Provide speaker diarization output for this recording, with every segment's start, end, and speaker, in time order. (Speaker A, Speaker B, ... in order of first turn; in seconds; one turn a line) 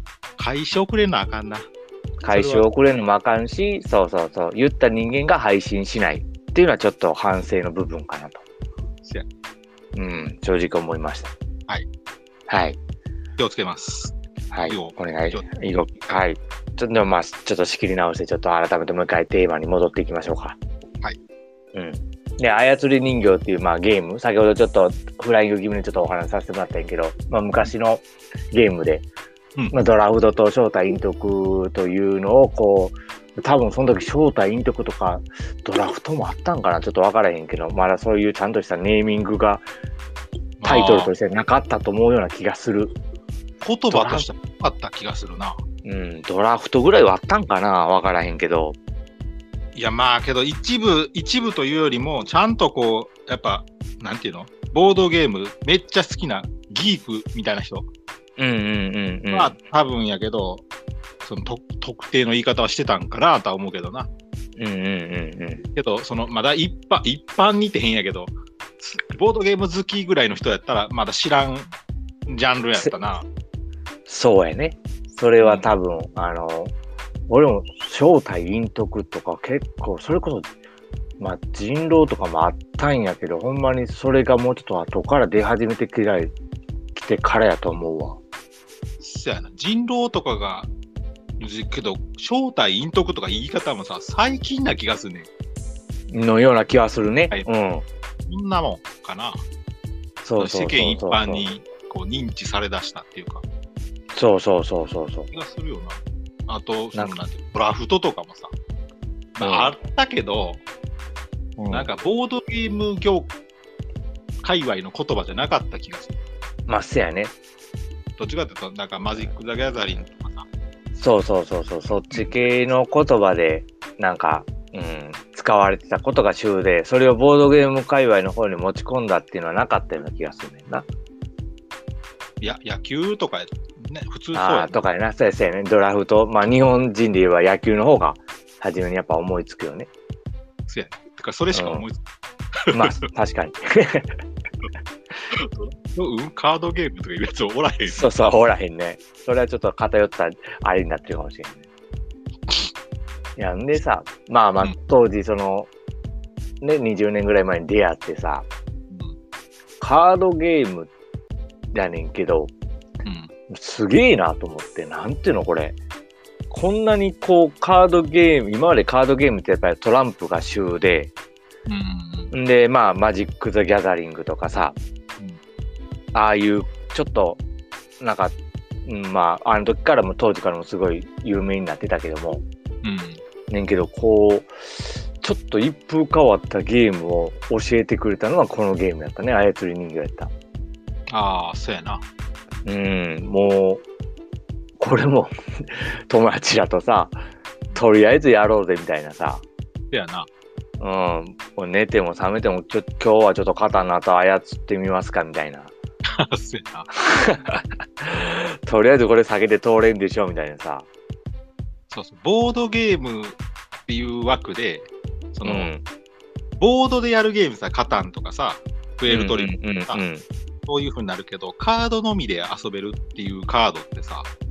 Speaker A: 0.4-1.7
Speaker B: 2.2-8.4
Speaker A: 2.3-2.7
Speaker B: 9.9-11.3
Speaker B: 12.5-12.8
Speaker A: 13.4-15.5
Speaker B: 14.5-20.6
Speaker B: 21.7-29.1
Speaker B: 29.7-39.6
Speaker A: 40.6-41.1
Speaker B: 40.6-42.9
Speaker A: 43.6-45.6
Speaker B: 43.9-44.3
Speaker B: 45.8-48.8
Speaker A: 49.7-57.9
Speaker B: 58.4-59.6
Speaker A: 59.3-60.6
Speaker A: 61.2-64.1
Speaker B: 64.6-65.7
Speaker A: 65.7-71.7
Speaker A: 72.3-73.2
Speaker B: 74.1-76.7
Speaker A: 75.4-75.7
Speaker B: 77.3-80.5
Speaker B: 81.2-86.3
Speaker B: 86.9-88.2
Speaker A: 89.0-90.7
Speaker A: 91.4-95.3
Speaker B: 96.1-97.8
Speaker A: 98.3-99.4
Speaker B: 100.2-101.5
Speaker A: 100.4-103.4
Speaker B: 104.1-105.3
Speaker A: 105.3-108.5
Speaker A: 109.4-110.6
Speaker B: 109.4-109.7
Speaker B: 111.6-111.9
Speaker A: 111.7-113.3
Speaker A: 114.4-116.2
Speaker B: 116.7-117.3
Speaker A: 118.2-120.5
Speaker B: 121.0-130.8
Speaker A: 122.1-122.4
Speaker A: 132.4-134.8
Speaker B: 134.3-139.9
Speaker A: 140.7-142.0
Speaker B: 141.5-141.8
Speaker A: 142.6-143.0
Speaker B: 142.7-144.1
Speaker A: 145.3-148.3
Speaker B: 147.9-151.6
Speaker B: 153.4-155.7
Speaker B: 156.6-158.4
Speaker A: 158.9-159.2
Speaker B: 159.8-160.9
Speaker B: 161.7-162.5
Speaker A: 163.0-163.3
Speaker B: 163.5-165.8
Speaker B: 166.5-171.1
Speaker A: 171.7-172.3
Speaker B: 172.3-174.8
Speaker B: 176.1-177.4
Speaker B: 178.0-178.3
Speaker B: 178.8-182.4
Speaker A: 182.8-183.2
Speaker B: 183.5-190.3
Speaker A: 191.1-192.0
Speaker B: 192.6-193.8
Speaker B: 194.8-197.2
Speaker B: 197.7-199.4
Speaker A: 199.9-200.3
Speaker B: 200.8-205.7
Speaker A: 206.1-206.9
Speaker B: 206.9-210.8
Speaker A: 211.9-215.7
Speaker B: 215.4-215.8
Speaker A: 216.6-220.0
Speaker B: 219.1-220.2
Speaker A: 220.7-224.3